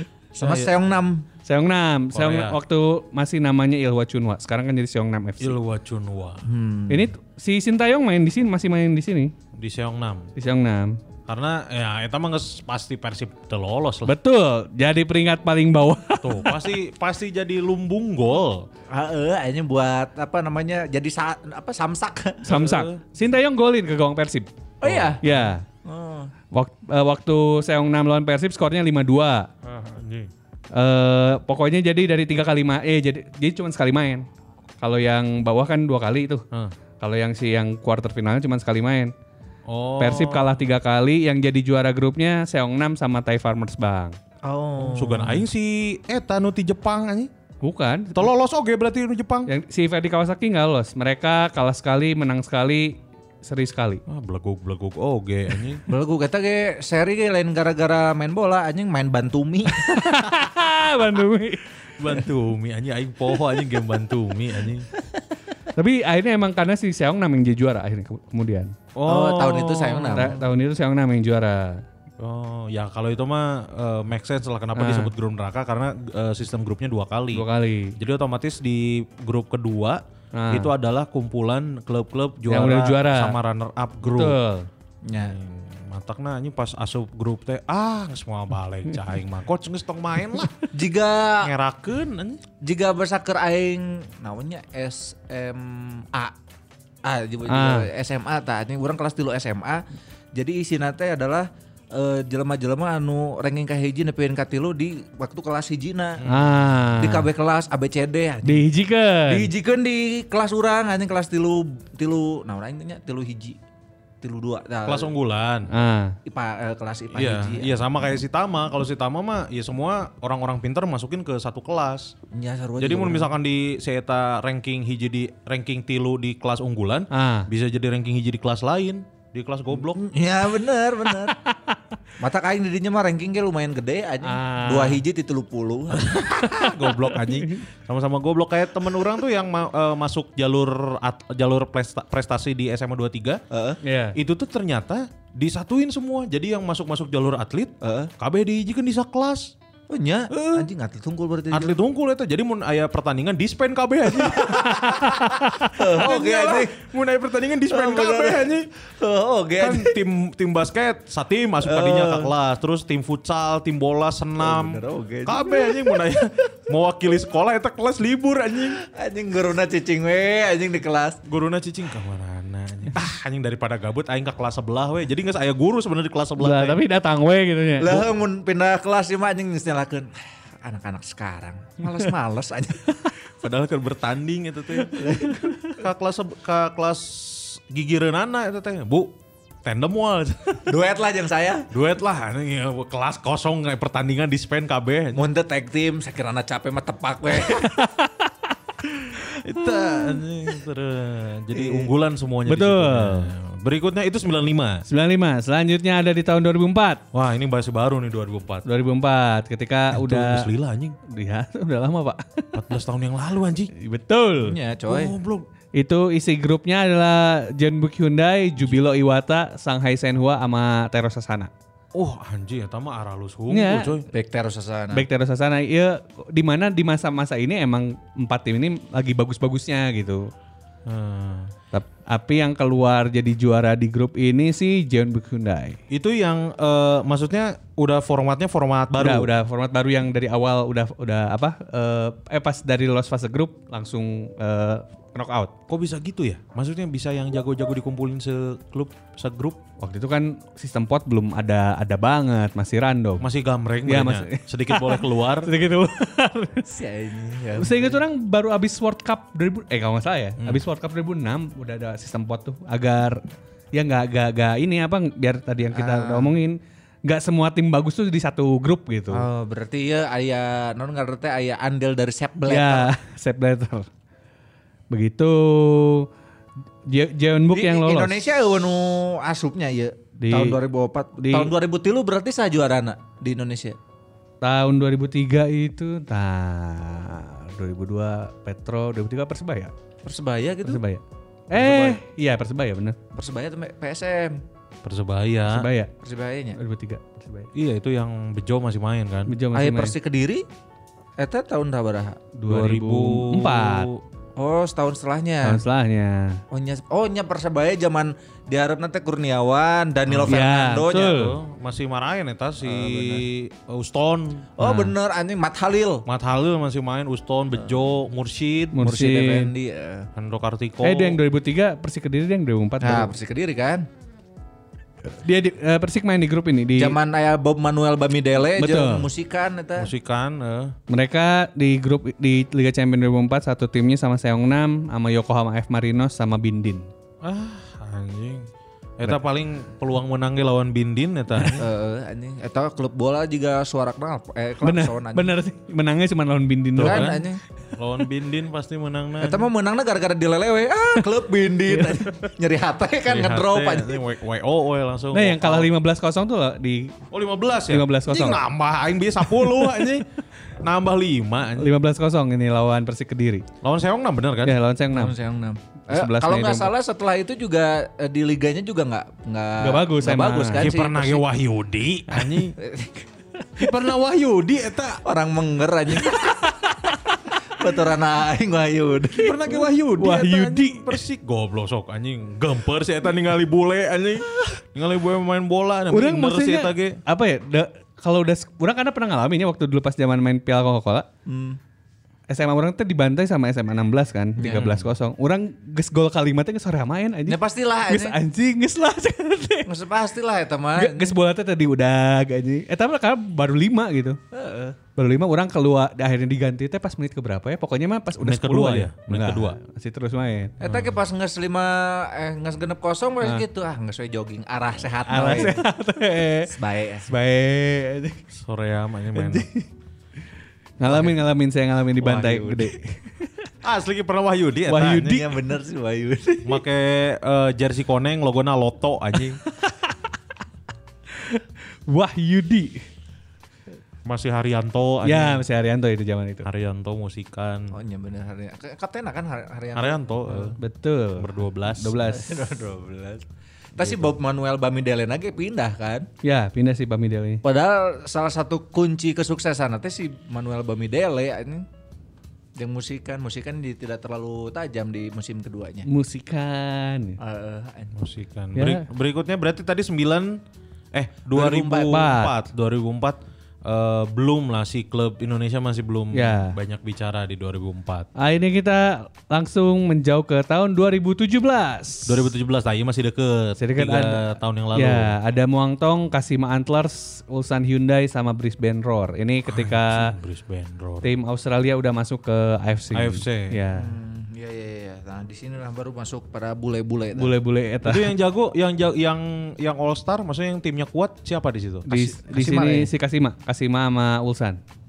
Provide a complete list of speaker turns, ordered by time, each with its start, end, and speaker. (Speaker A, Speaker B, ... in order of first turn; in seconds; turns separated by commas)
Speaker A: 0.3-1.2, Speaker B: 0.4-0.7, Speaker C: 1.5-5.6, Speaker B: 2.1-2.6, Speaker B: 5.4-6.4, Speaker A: 6.5-7.1, Speaker C: 6.9-9.3, Speaker B: 9.5-10.3, Speaker C: 10.4-11.0, Speaker B: 11.3-14.2, Speaker C: 14.1-16.6, Speaker B: 16.2-18.7, Speaker A: 18.9-22.5, Speaker C: 22.4-24.5, Speaker B: 22.5-23.0, Speaker A: 24.8-26.3, Speaker B: 24.8-25.2, Speaker C: 25.2-25.6, Speaker C: 26.5-29.5, Speaker B: 29.6-30.3, Speaker C: 30.7-34.3, Speaker C: 34.8-36.4, Speaker C: 37.0-39.1, Speaker B: 39.7-40.5, Speaker C: 40.0-44.2, Speaker A: 44.4-45.4, Speaker B: 44.8-47.3, Speaker C: 47.6-48.3, Speaker B: 48.1-49.5, Speaker C: 49.5-54.0, Speaker B: 54.1-55.8, Speaker A: 55.9-60.3, Speaker C: 59.9-61.7, Speaker B: 62.0-64.9, Speaker C: 65.8-68.7, Speaker B: 69.0-70.3, Speaker A: 69.1-70.5, Speaker C: 70.1-71.8, Speaker B: 72.2-77.5, Speaker C: 74.8-75.1, Speaker C: 77.3-78.0, Speaker B: 78.0-84.4, Speaker C: 80.3-80.7, Speaker C: 82.5-83.4, Speaker C: 84.0-84.7, Speaker A: 85.0-85.4, Speaker B: 85.2-90.5, Speaker A: 90.7-91.5, Speaker B: 91.4-92.4, Speaker A: 92.6-96.3, Speaker A: 97.0-99.8, Speaker C: 97.5-97.9, Speaker A: 100.3-106.2, Speaker B: 106.2-106.7, Speaker C: 106.3-107.3, Speaker A: 107.0-108.7, Speaker C: 108.5-109.5, Speaker A: 109.3-113.6, Speaker A: 114.2-115.1, Speaker B: 114.9-115.7, Speaker C: 115.7-116.2, Speaker A: 116.3-117.8, Speaker B: 117.1-122.1, Speaker A: 122.3-123.3, Speaker B: 122.8-130.0, Speaker C: 127.1-127.5, Speaker A: 129.9-131.4, Speaker C: 131.2-131.8, Speaker A: 132.2-136.4, Speaker C: 134.2-135.0, Speaker B: 136.0-143.4, Speaker C: 137.2-137.6, Speaker A: 143.5-143.8, Speaker C: 143.8-144.2, Speaker B: 144.2-149.5, Speaker A: 147.8-148.1, Speaker A: 149.9-151.8, Speaker B: 151.5-155.1, Speaker A: 154.1-156.8, Speaker C: 154.8-155.8, Speaker B: 155.9-158.7, Speaker A: 157.7-160.0, Speaker B: 159.6-168.8, Speaker A: 161.6-162.3, Speaker A: 164.4-166.1, Speaker A: 168.8-171.2, Speaker B: 171.3-176.8, Speaker C: 176.4-178.1, Speaker A: 177.8-182.8, Speaker B: 183.4-185.0, Speaker A: 184.9-185.6, Speaker C: 185.3-185.5, Speaker B: 185.7-189.1, Speaker B: 189.6-190.8, Speaker A: 190.7-191.7, Speaker B: 191.7-195.2, Speaker A: 195.1-197.8, Speaker C: 197.5-198.3, Speaker B: 199.4-204.8, Speaker C: 199.6-200.2, Speaker A: 201.6-201.9, Speaker C: 202.5-203.3, Speaker C: 204.9-207.0, Speaker B: 207.1-208.7, Speaker C: 208.7-210.5, Speaker B: 209.9-211.0, Speaker C: 211.1-212.6, Speaker B: 212.5-213.7, Speaker C: 213.7-214.6, Speaker A: 214.4-215.1, Speaker B: 214.9-215.5, Speaker C: 215.8-221.5, Speaker B: 221.9-224.1, Speaker C: 223.5-223.9, Speaker A: 224.1-225.1, Speaker C: 224.9-230.3, Speaker B: 230.9-231.5, Speaker C: 231.7-235.8, Speaker B: 235.9-239.3, Speaker C: 239.0-245.5, Speaker B: 245.7-249.6, Speaker C: 249.8-253.2, Speaker B: 253.2-255.5, Speaker C: 253.9-256.7, Speaker A: 256.7-258.0, Speaker C: 257.6-269.2, Speaker A: 265.7-266.3, Speaker A: 269.1-272.9, Speaker C: 272.5-273.9, Speaker C: 274.9-276.1, Speaker C: 276.9-278.2, Speaker A: 277.5-283.8, Speaker C: 280.2-280.6, Speaker C: 281.2-281.5, Speaker C: 284.4-289.7, Speaker A: 290.1-290.8, Speaker C: 290.6-293.0, Speaker B: 291.6-292.0, Speaker A: 293.1-294.4, Speaker B: 294.8-295.7, Speaker C: 295.5-295.9, Speaker A: 296.0-296.6, Speaker C: 296.6-297.5, Speaker B: 297.5-299.4, Speaker C: 299.3-299.9, Speaker A: 299.5-300.4, Speaker A: 301.2-302.2, Speaker C: 302.4-303.9, Speaker B: 302.5-304.0, Speaker A: 304.4-305.6, Speaker C: 305.4-306.4, Speaker A: 306.5-311.2, Speaker B: 310.1-310.4, Speaker C: 310.3-311.4, Speaker B: 311.0-314.5, Speaker A: 312.6-313.2, Speaker A: 314.6-316.0, Speaker C: 314.6-314.9, Speaker B: 316.1-318.8, Speaker C: 318.8-319.5, Speaker A: 318.8-320.1, Speaker B: 320.2-321.2, Speaker C: 320.8-323.1, Speaker A: 322.8-323.9, Speaker C: 325.1-327.0, Speaker A: 326.8-329.9, Speaker C: 328.6-329.1, Speaker B: 329.8-330.8, Speaker C: 330.9-336.9, Speaker B: 337.2-338.5, Speaker B: 339.0-341.6, Speaker A: 341.6-345.3, Speaker C: 344.6-347.2, Speaker B: 346.8-347.2, Speaker A: 346.8-347.4, Speaker B: 347.7-349.5, Speaker A: 349.2-354.0, Speaker C: 351.7-352.3, Speaker B: 353.1-355.7, Speaker C: 355.1-356.9, Speaker B: 357.1-360.1, Speaker C: 357.7-358.4, Speaker C: 359.3-359.9, Speaker B: 360.6-361.7, Speaker C: 361.6-363.4, Speaker B: 363.6-364.6, Speaker C: 364.4-365.1, Speaker A: 364.9-371.2, Speaker C: 365.9-366.7, Speaker C: 369.6-370.7, Speaker B: 370.6-372.6, Speaker A: 372.6-373.1, Speaker B: 373.6-375.0, Speaker A: 375.1-376.7, Speaker A: 377.5-379.5, Speaker B: 379.1-387.0, Speaker C: 380.0-380.9, Speaker C: 385.9-391.1, Speaker A: 391.3-391.6, Speaker C: 392.3-399.7, Speaker A: 394.4-394.7, Speaker B: 394.5-394.9, Speaker A: 397.3-398.2, Speaker A: 399.7-401.1, Speaker C: 400.8-404.2, Speaker A: 404.3-404.8, Speaker C: 405.0-410.6, Speaker B: 408.2-409.6, Speaker A: 410.6-415.6, Speaker B: 410.6-411.0, Speaker C: 415.1-416.5, Speaker A: 416.5-417.1, Speaker C: 417.1-418.2, Speaker B: 418.3-419.5, Speaker C: 419.1-419.7, Speaker C: 420.8-423.3, Speaker A: 420.8-421.2, Speaker A: 422.0-422.7, Speaker B: 423.6-425.2, Speaker C: 424.7-425.2, Speaker A: 424.9-426.6, Speaker B: 426.4-429.4, Speaker C: 429.5-430.0, Speaker C: 431.1-432.8, Speaker B: 434.1-435.4, Speaker C: 435.0-436.5, Speaker B: 436.4-437.8, Speaker A: 437.7-440.5, Speaker B: 439.7-440.6, Speaker C: 440.6-442.4, Speaker B: 441.2-442.0, Speaker A: 442.0-443.2, Speaker A: 443.8-446.1, Speaker B: 443.8-444.1, Speaker C: 446.2-447.4, Speaker A: 447.4-451.7, Speaker A: 452.6-455.9, Speaker C: 455.9-457.2, Speaker A: 457.2-457.9, Speaker B: 457.9-460.4, Speaker C: 458.6-458.9, Speaker B: 460.9-468.1, Speaker A: 461.3-462.0, Speaker C: 461.9-462.4, Speaker C: 466.1-466.6, Speaker C: 468.2-472.3, Speaker B: 472.1-475.1, Speaker C: 473.6-474.2, Speaker C: 474.8-480.1, Speaker B: 479.5-481.1, Speaker C: 481.0-483.9, Speaker B: 482.9-483.6, Speaker A: 483.7-487.3, Speaker C: 487.1-488.1, Speaker B: 487.8-491.9, Speaker C: 491.9-494.6, Speaker A: 491.9-492.9